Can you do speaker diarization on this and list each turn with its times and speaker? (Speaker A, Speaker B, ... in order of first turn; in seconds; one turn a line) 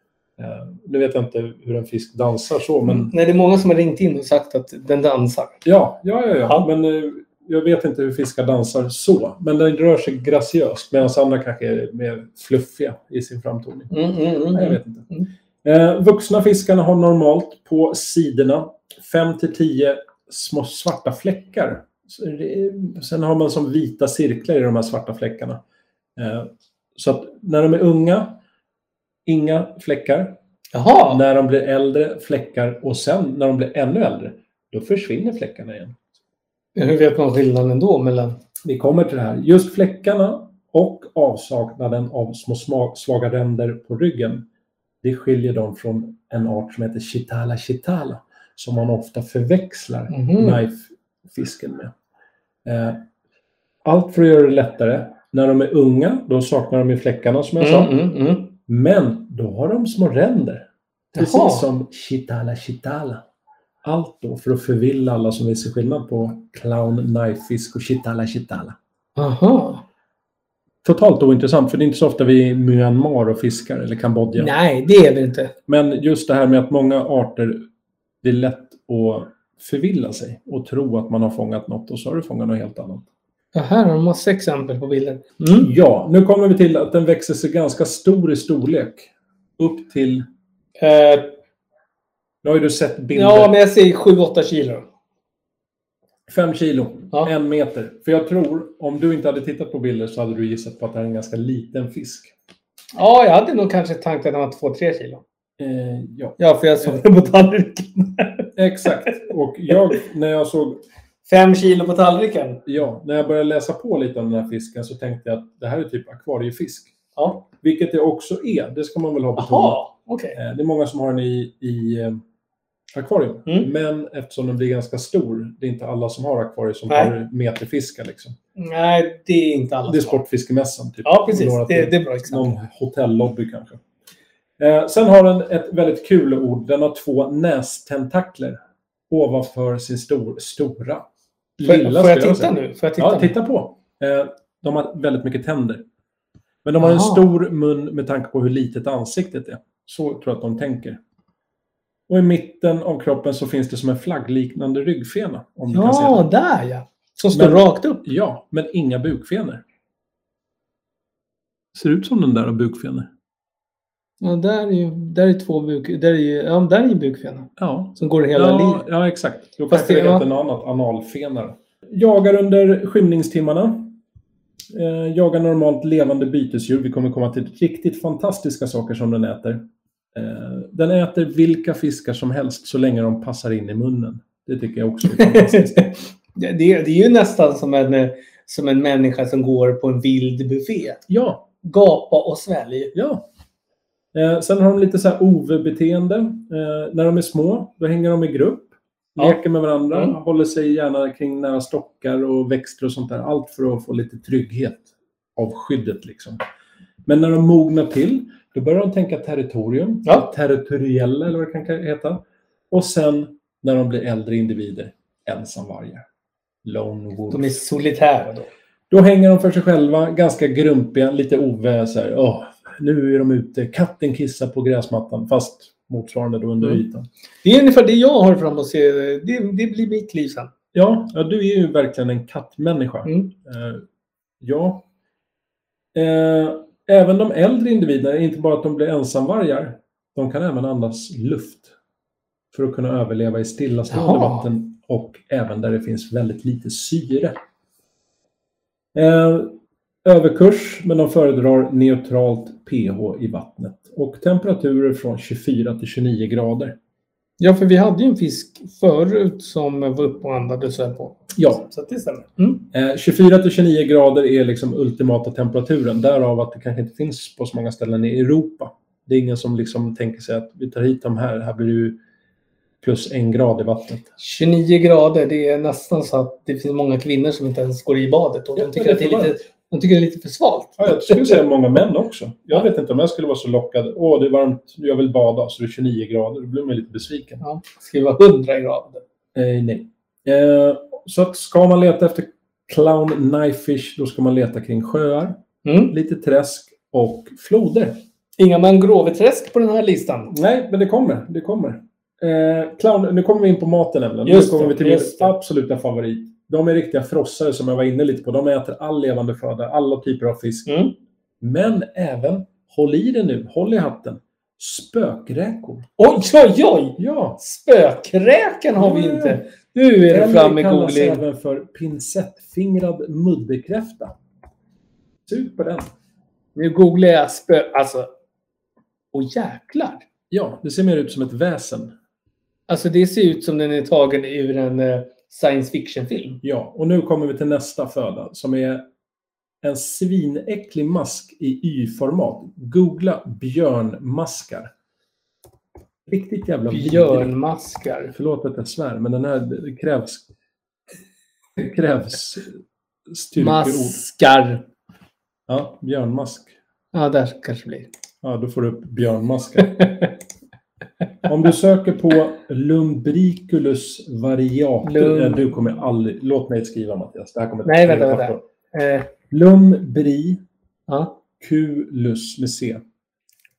Speaker A: 0.4-3.1
Speaker B: 2.9-5.6
Speaker A: 5.6-15.1
Speaker B: 13.9-15.3
Speaker A: 15.6-25.6
Speaker A: 26.2-28.4
Speaker A: 29.3-30.4
Speaker B: 30.7-31.2
Speaker A: 31.1-36.0
Speaker B: 36.8-38.4
Speaker A: 38.6-44.5
Speaker A: 45.0-51.9
Speaker B: 50.1-50.6
Speaker A: 52.6-53.0
Speaker A: 53.9-58.0
Speaker B: 57.6-58.6
Speaker A: 58.7-63.2
Speaker B: 61.1-61.7
Speaker A: 63.8-68.8
Speaker B: 69.2-69.8
Speaker A: 70.8-74.5
Speaker B: 74.4-75.5
Speaker A: 75.7-77.7
Speaker A: 78.2-83.1
Speaker B: 83.5-85.7
Speaker A: 85.6-90.2
Speaker B: 90.8-91.4
Speaker A: 92.4-93.5
Speaker B: 93.1-94.9
Speaker A: 96.3-102.3
Speaker B: 103.0-105.2
Speaker A: 105.6-107.0
Speaker B: 106.4-108.5
Speaker A: 108.6-110.8
Speaker B: 111.3-112.7
Speaker A: 112.7-119.8
Speaker B: 117.2-117.4
Speaker B: 119.4-120.4
Speaker A: 120.3-122.2
Speaker A: 122.9-128.4
Speaker B: 128.6-130.2
Speaker A: 129.9-133.8
Speaker B: 131.0-132.6
Speaker A: 134.6-138.6
Speaker A: 139.1-141.1
Speaker A: 141.6-145.8
Speaker B: 141.6-143.3
Speaker A: 146.7-151.0
Speaker B: 146.8-147.3
Speaker A: 152.1-156.2
Speaker B: 155.7-158.0
Speaker A: 157.3-159.6
Speaker A: 161.7-163.1
Speaker B: 164.2-168.9
Speaker A: 167.6-174.0
Speaker B: 169.7-170.3
Speaker A: 174.7-185.9
Speaker B: 185.1-191.0
Speaker A: 191.1-191.5
Speaker B: 191.6-192.9
Speaker A: 192.9-193.3
Speaker A: 194.1-206.4
Speaker A: 207.1-216.1
Speaker B: 210.1-210.3
Speaker A: 216.6-217.6
Speaker B: 217.3-218.5
Speaker A: 218.9-227.1
Speaker B: 227.4-230.5
Speaker A: 230.7-233.8
Speaker B: 233.1-233.3
Speaker A: 234.4-234.8
Speaker A: 235.9-241.7
Speaker A: 242.5-247.4
Speaker B: 243.9-244.5
Speaker A: 248.9-256.8
Speaker B: 257.4-262.7
Speaker A: 261.4-261.6
Speaker A: 262.7-272.0
Speaker A: 272.8-274.1
Speaker B: 274.2-281.4
Speaker A: 278.6-279.4
Speaker A: 280.8-287.4
Speaker B: 287.4-289.0
Speaker A: 289.4-298.0
Speaker B: 295.6-295.9
Speaker B: 298.4-300.3
Speaker A: 300.3-310.7
Speaker B: 304.2-305.3
Speaker B: 310.7-310.9
Speaker A: 311.4-315.9
Speaker B: 316.0-321.2
Speaker A: 317.0-317.4
Speaker A: 318.8-319.4
Speaker A: 320.1-324.1
Speaker A: 325.3-325.9
Speaker B: 326.6-328.1
Speaker B: 329.1-330.0
Speaker A: 330.3-332.0
Speaker B: 332.7-336.4
Speaker A: 336.4-338.9
Speaker A: 339.6-344.7
Speaker A: 346.1-347.3
Speaker B: 346.7-348.1
Speaker A: 348.1-350.3
Speaker A: 351.6-352.5
Speaker A: 353.1-354.0
Speaker B: 353.4-354.7
Speaker A: 355.5-356.5
Speaker B: 356.9-357.9
Speaker A: 358.2-360.0
Speaker B: 359.8-360.1
Speaker A: 361.2-368.4
Speaker B: 364.8-365.6
Speaker B: 367.6-369.1
Speaker A: 369.3-370.4
Speaker B: 370.9-371.2
Speaker A: 371.4-372.8